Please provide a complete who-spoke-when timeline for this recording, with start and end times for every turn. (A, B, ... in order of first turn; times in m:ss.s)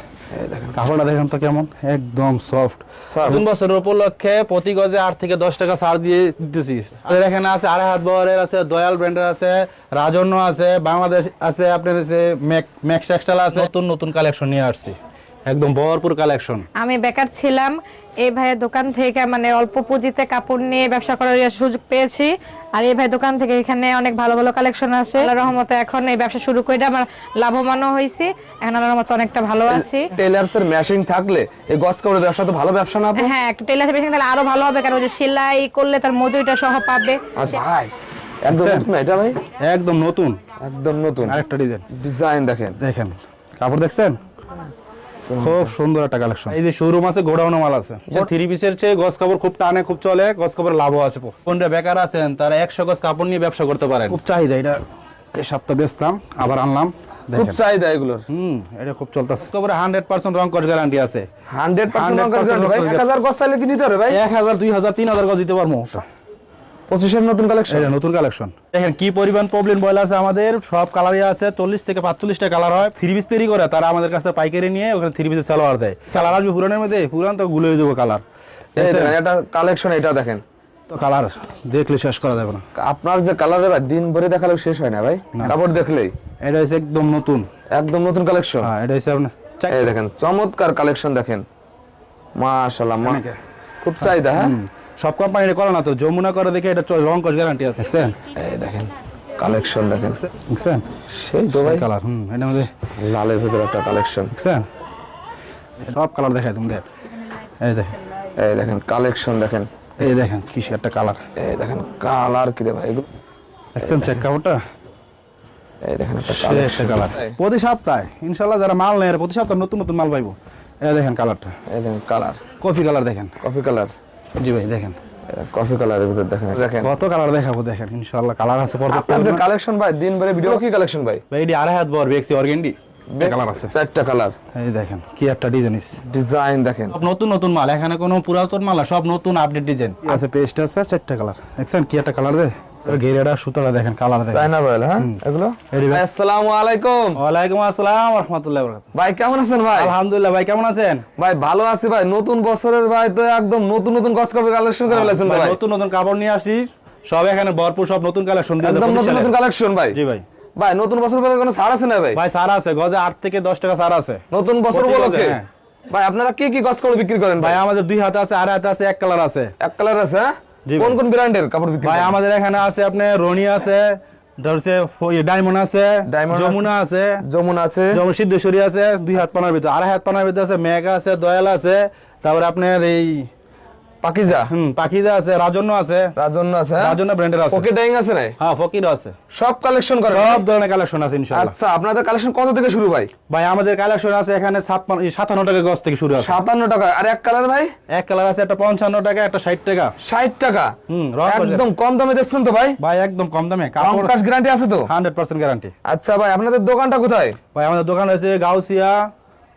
0:00.3-0:00.8 A
0:00.7-0:15.0 B
0:03.0-0:03.4 A
0:15.5-0:16.7 B
0:16.8-0:30.1 C
0:29.7-0:33.3 A
0:33.2-0:37.5 C
0:37.3-0:37.9 A
0:38.4-0:39.4 A
0:38.5-0:38.9 B
0:39.6-0:40.4 B
0:40.6-0:42.8 A
0:41.2-0:41.9 B
0:42.8-0:44.2 B
0:45.3-0:45.7 A
0:45.4-0:54.8 B
0:55.3-0:57.6 B
0:57.3-0:58.3 A
0:58.3-1:01.3 B
1:01.5-1:04.2 A
1:01.9-1:03.1 B
1:04.1-1:06.0 B
1:06.9-1:07.9 A
1:07.7-1:18.2 B
1:16.1-1:16.4 A
1:18.8-1:20.4 A
1:18.8-1:19.2 B
1:20.9-1:22.6 B
1:22.7-1:26.2 A
1:26.4-1:27.4 B
1:27.7-1:28.7 A
1:28.6-1:29.8 B
1:29.7-1:31.4 A
1:32.4-1:33.2 A
1:33.0-1:33.4 B
1:33.8-1:34.6 A
1:34.0-1:38.2 B
1:38.3-1:40.3 A
1:40.3-1:40.9 B
1:41.1-1:41.9 A
1:41.5-1:42.7 B
1:43.0-1:44.3 A
1:44.3-1:44.6 B
1:45.8-1:46.8 B
1:47.6-1:47.9 B
1:48.4-1:49.7 A
1:50.0-1:51.2 B
1:51.4-1:53.1 A
1:53.7-1:54.6 B
1:53.8-1:54.2 A
1:55.8-1:57.3 A
1:56.2-2:01.5 B
2:01.7-2:02.5 A
2:02.5-2:03.3 B
2:03.4-2:03.9 A
2:04.4-2:05.0 B
2:05.3-2:06.9 A
2:06.8-2:09.4 B
2:08.9-2:11.2 A
2:11.3-2:13.7 B
2:13.1-2:14.4 A
2:14.5-2:16.0 B
2:16.0-2:17.0 A
2:16.9-2:25.2 B
2:24.3-2:27.2 A
2:25.7-2:26.0 B
2:27.2-2:28.8 B
2:28.9-2:30.0 A
2:29.7-2:31.0 B
2:31.2-2:35.6 A
2:34.9-2:39.4 B
2:38.6-2:40.0 A
2:39.9-2:40.2 B
2:40.5-2:42.2 A
2:42.1-2:45.4 B
2:44.3-2:47.6 A
2:47.4-2:49.5 B
2:49.6-2:52.2 A
2:50.6-2:51.0 B
2:51.8-2:57.2 B
2:56.1-2:56.7 A
2:57.2-2:58.0 A
2:57.9-3:03.3 B
3:04.0-3:04.5 A
3:04.5-3:06.1 B
3:06.2-3:08.4 A
3:06.8-3:07.7 B
3:08.4-3:09.2 B
3:09.3-3:10.5 A
3:10.1-3:11.5 B
3:11.3-3:13.1 A
3:13.3-3:16.4 B
3:16.1-3:17.7 A
3:17.9-3:19.9 B
3:20.0-3:22.8 A
3:20.9-3:21.6 B
3:22.8-3:24.1 B
3:23.8-3:24.9 A
3:24.8-3:25.7 B
3:25.8-3:27.4 A
3:27.5-3:29.0 B